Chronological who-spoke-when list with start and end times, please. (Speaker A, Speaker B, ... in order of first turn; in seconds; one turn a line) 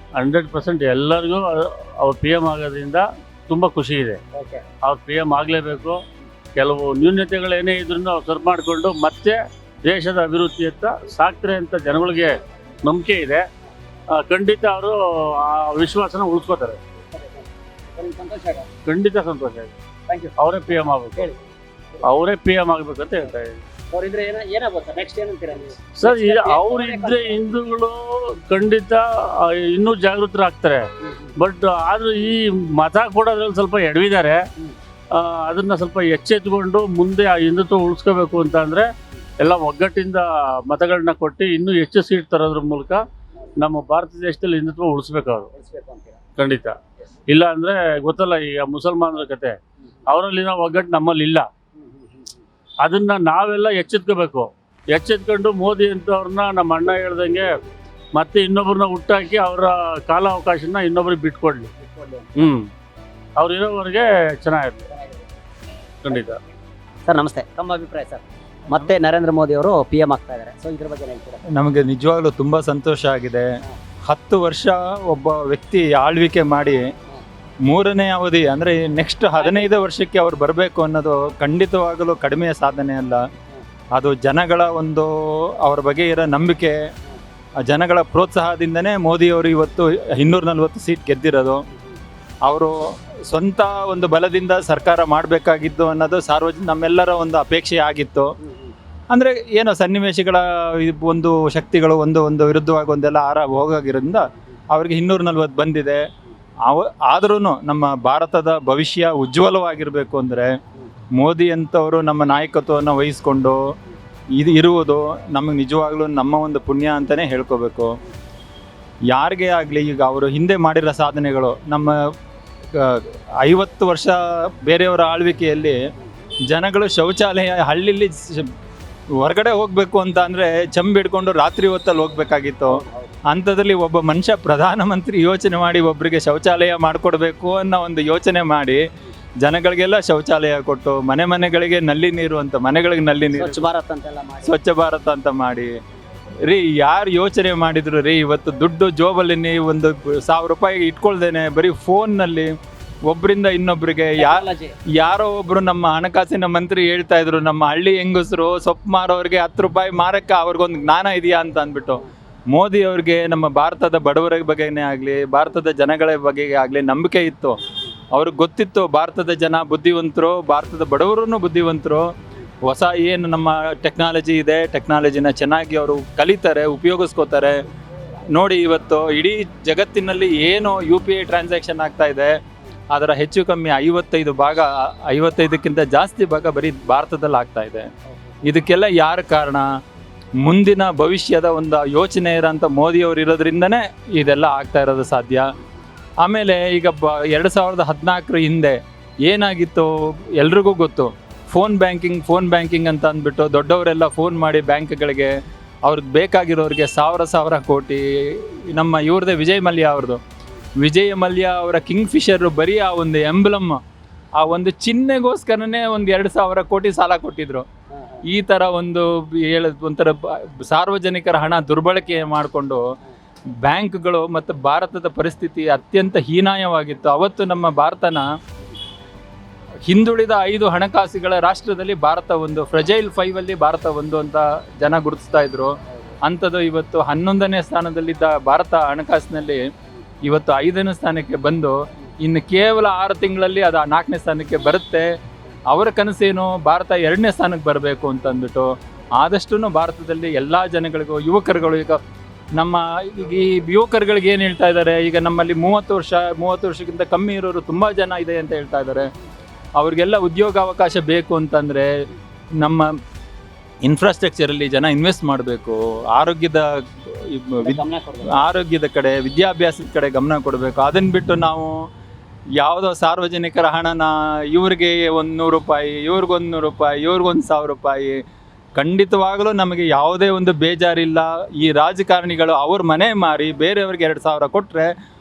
Speaker A: 0.2-4.2
Speaker B: 4.3-4.6
Speaker A: 4.8-6.0
Speaker A: 6.5-13.4
Speaker A: 14.2-16.8
Speaker B: 17.1-18.7
Speaker A: 18.9-19.7
Speaker A: 20.4-21.3
Speaker A: 22.0-23.6
Speaker B: 23.9-27.4
Speaker A: 25.9-30.8
Speaker B: 31.0-31.3
Speaker A: 31.4-34.4
Speaker A: 35.1-38.9
Speaker A: 39.4-43.0
Speaker A: 43.6-45.5
Speaker B: 45.5-46.2
Speaker A: 46.4-46.8
Speaker A: 47.3-49.6
Speaker A: 50.1-51.5
Speaker B: 51.8-52.3
Speaker A: 52.8-57.5
Speaker A: 58.1-61.7
Speaker B: 61.8-62.5
Speaker A: 62.4-62.7
Speaker A: 63.4-64.8
Speaker A: 66.0-66.4
Speaker B: 67.0-71.4
Speaker C: 71.5-73.5
Speaker C: 74.1-76.9
Speaker C: 77.7-83.2
Speaker B: 79.4-79.7
Speaker C: 83.9-86.8
Speaker C: 87.6-91.6
Speaker C: 92.4-98.3
Speaker B: 98.5-98.7
Speaker C: 99.1-106.0
Speaker C: 106.6-110.5
Speaker C: 111.2-113.6
Speaker C: 114.4-117.9
Speaker C: 119.1-121.9
Speaker C: 122.7-125.8
Speaker C: 126.5-128.5
Speaker C: 129.2-138.8
Speaker B: 132.7-133.1
Speaker C: 139.4-143.6
Speaker B: 143.3-144.5
Speaker C: 144.4-145.7
Speaker C: 146.4-152.5
Speaker C: 153.1-154.4
Speaker B: 154.2-154.7
Speaker C: 155.0-167.6
Speaker C: 168.1-172.1
Speaker C: 172.6-177.6
Speaker C: 178.3-182.4
Speaker C: 182.9-187.9
Speaker C: 188.4-189.7
Speaker C: 190.4-195.5
Speaker C: 196.2-210.2
Speaker C: 210.8-213.8
Speaker C: 214.4-217.6
Speaker B: 217.9-218.2
Speaker C: 218.3-222.8
Speaker C: 223.6-228.3
Speaker C: 229.9-239.6
Speaker C: 240.2-245.1
Speaker C: 245.7-252.0
Speaker C: 252.6-259.1
Speaker C: 259.8-261.9
Speaker C: 262.6-262.9
Speaker C: 263.8-271.8
Speaker B: 267.6-268.4
Speaker C: 272.6-278.2
Speaker C: 278.8-284.9